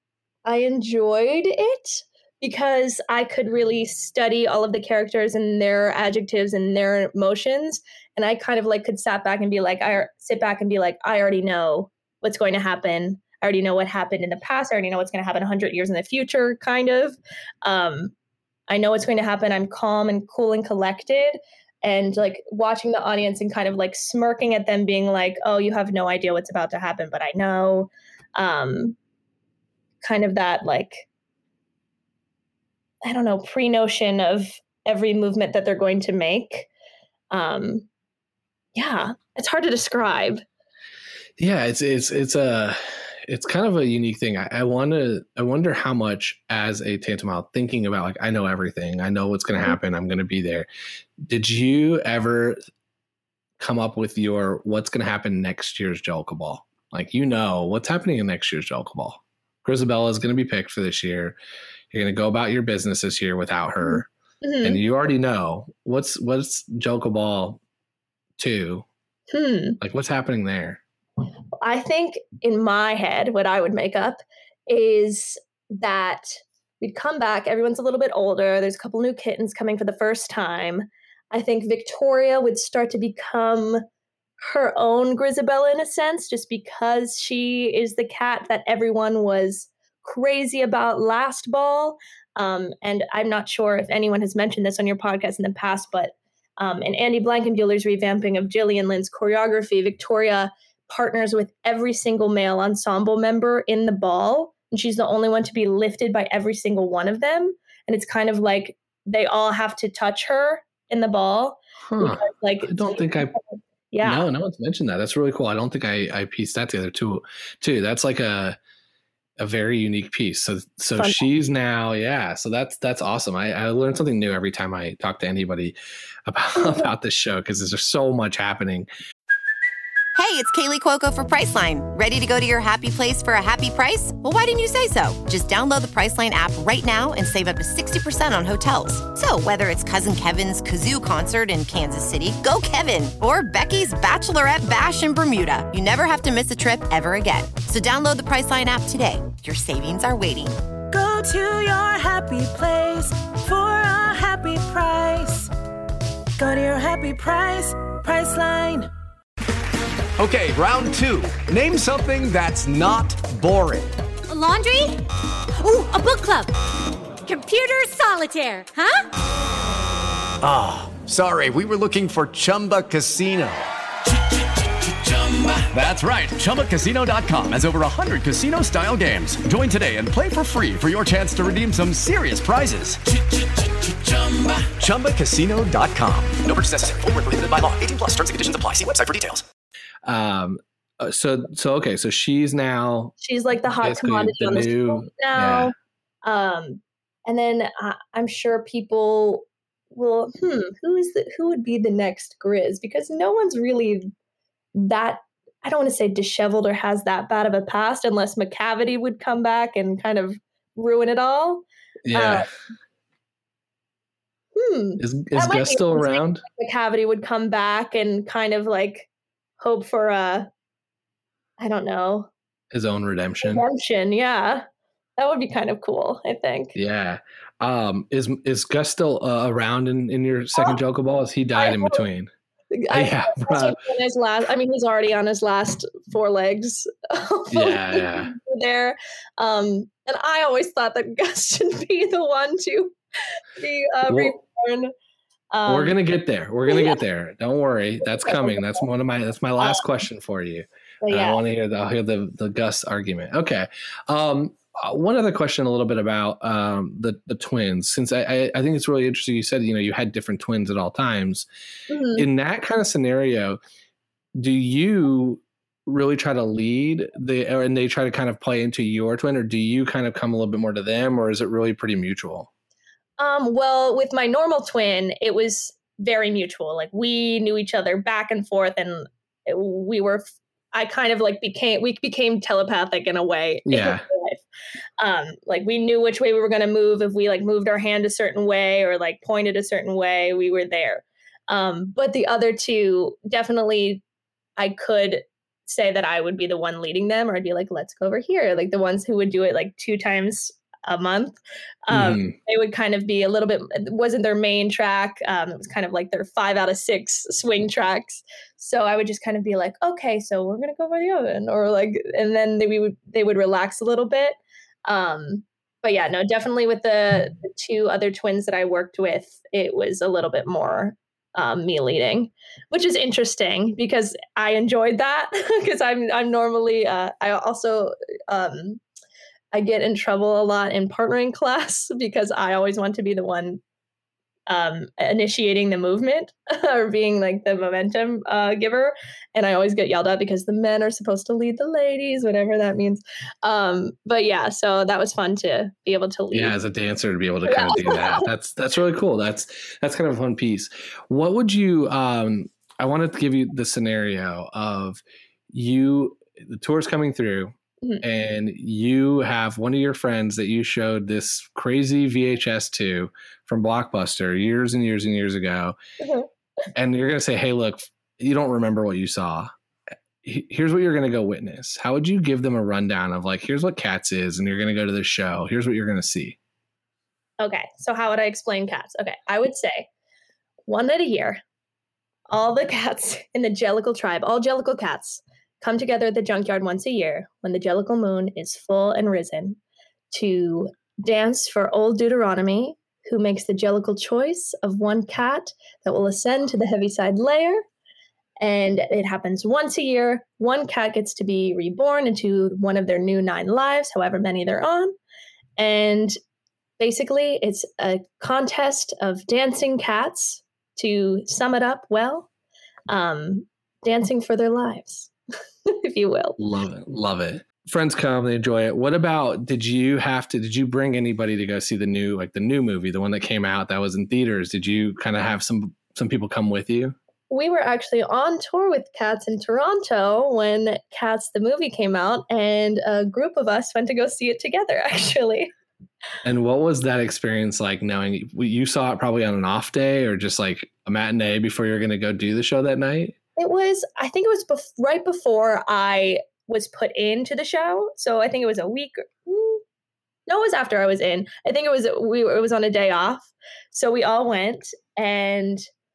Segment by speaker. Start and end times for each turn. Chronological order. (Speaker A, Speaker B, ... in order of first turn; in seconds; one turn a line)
Speaker A: 0.4-18.1
Speaker A: 18.7-28.9
Speaker A: 30.0-31.0
Speaker A: 33.0-36.7
Speaker A: 37.3-37.9
Speaker A: 38.8-40.4
Speaker B: 41.4-50.7
Speaker B: 51.2-52.6
Speaker B: 53.6-61.4
Speaker B: 61.9-64.1
Speaker A: 63.8-64.8
Speaker B: 64.6-67.6
Speaker B: 68.4-68.8
Speaker A: 69.3-69.8
Speaker B: 69.8-70.8
Speaker A: 71.6-83.8
Speaker A: 84.4-114.3
Speaker B: 111.9-113.3
Speaker B: 114.0-118.6
Speaker B: 119.4-128.9
Speaker A: 121.0-121.2
Speaker C: 130.1-150.6
Speaker D: 150.9-155.5
Speaker D: 156.4-158.9
Speaker E: 160.2-163.9
Speaker F: 164.3-165.0
Speaker F: 165.6-166.5
Speaker F: 167.2-169.0
Speaker E: 170.4-173.7
Speaker E: 175.6-183.0
Speaker G: 184.1-184.6
Speaker E: 184.8-186.4
Speaker G: 186.4-189.4
Speaker B: 190.0-193.1
Speaker A: 193.2-204.1
Speaker B: 193.8-195.7
Speaker A: 204.8-212.5
Speaker B: 212.1-212.5
Speaker A: 214.6-219.1
Speaker B: 215.0-216.4
Speaker A: 219.6-220.5
Speaker A: 221.6-222.3
Speaker B: 222.7-223.6
Speaker A: 223.4-224.6
Speaker A: 225.2-226.7
Speaker B: 226.7-232.3
Speaker A: 231.6-232.0
Speaker A: 232.7-242.9
Speaker B: 232.9-233.8
Speaker B: 237.5-238.3
Speaker A: 243.6-244.9
Speaker B: 244.1-244.3
Speaker A: 245.5-246.0
Speaker B: 245.7-261.5
Speaker A: 246.7-247.0
Speaker A: 248.1-248.8
Speaker A: 251.0-251.4
Speaker A: 261.9-262.2
Speaker B: 262.1-263.6
Speaker B: 264.4-272.5
Speaker A: 273.2-284.4
Speaker B: 283.7-284.0
Speaker A: 285.0-294.0
Speaker A: 294.6-301.4
Speaker A: 301.9-328.8
Speaker B: 301.9-302.3
Speaker A: 329.5-333.6
Speaker A: 334.5-346.5
Speaker B: 346.3-365.8
Speaker A: 347.4-348.2
Speaker A: 366.0-366.3
Speaker B: 366.7-369.5
Speaker B: 370.2-376.4
Speaker A: 377.4-379.9
Speaker A: 380.7-381.4
Speaker A: 382.3-389.6
Speaker A: 390.1-397.6
Speaker A: 398.4-404.9
Speaker A: 405.6-406.1
Speaker A: 406.8-412.3
Speaker A: 412.9-415.1
Speaker A: 415.7-416.4
Speaker B: 416.4-426.9
Speaker A: 427.3-435.5
Speaker B: 436.2-443.1
Speaker A: 443.4-449.6
Speaker A: 450.3-455.7